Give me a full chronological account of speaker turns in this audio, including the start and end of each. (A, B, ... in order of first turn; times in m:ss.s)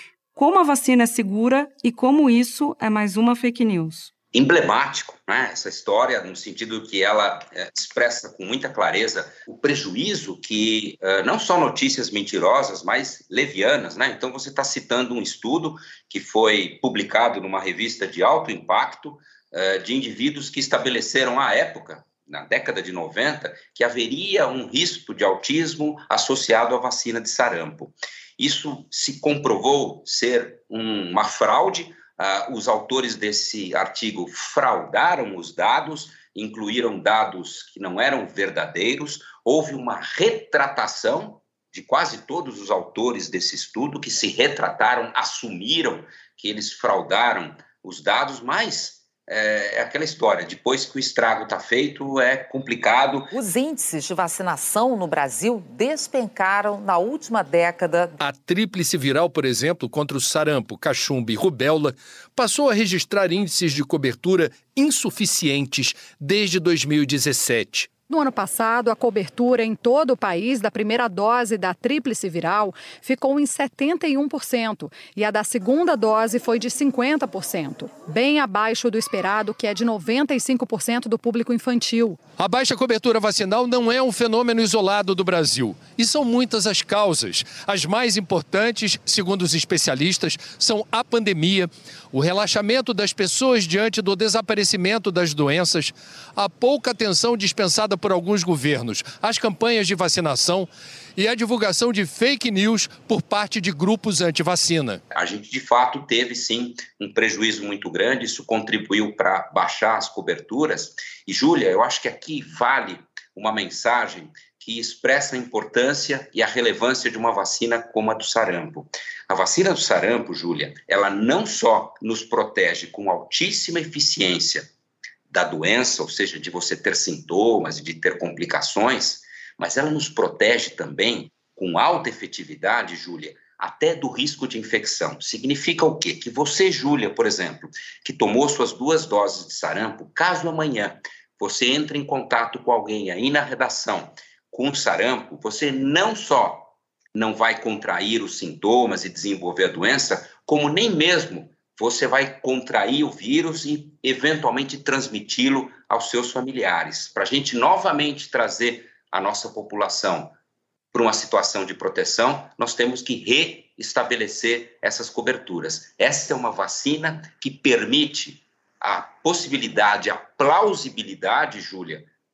0:00.3-0:04.1 A
0:04.3-0:53.3 B
0:53.3-0:58.2 C
0:58.2-1:07.9 D
1:08.1-1:22.2 E
1:22.4-1:45.0 D
1:45.1-2:04.7 B
2:05.3-2:40.3 B
2:40.9-2:52.0 B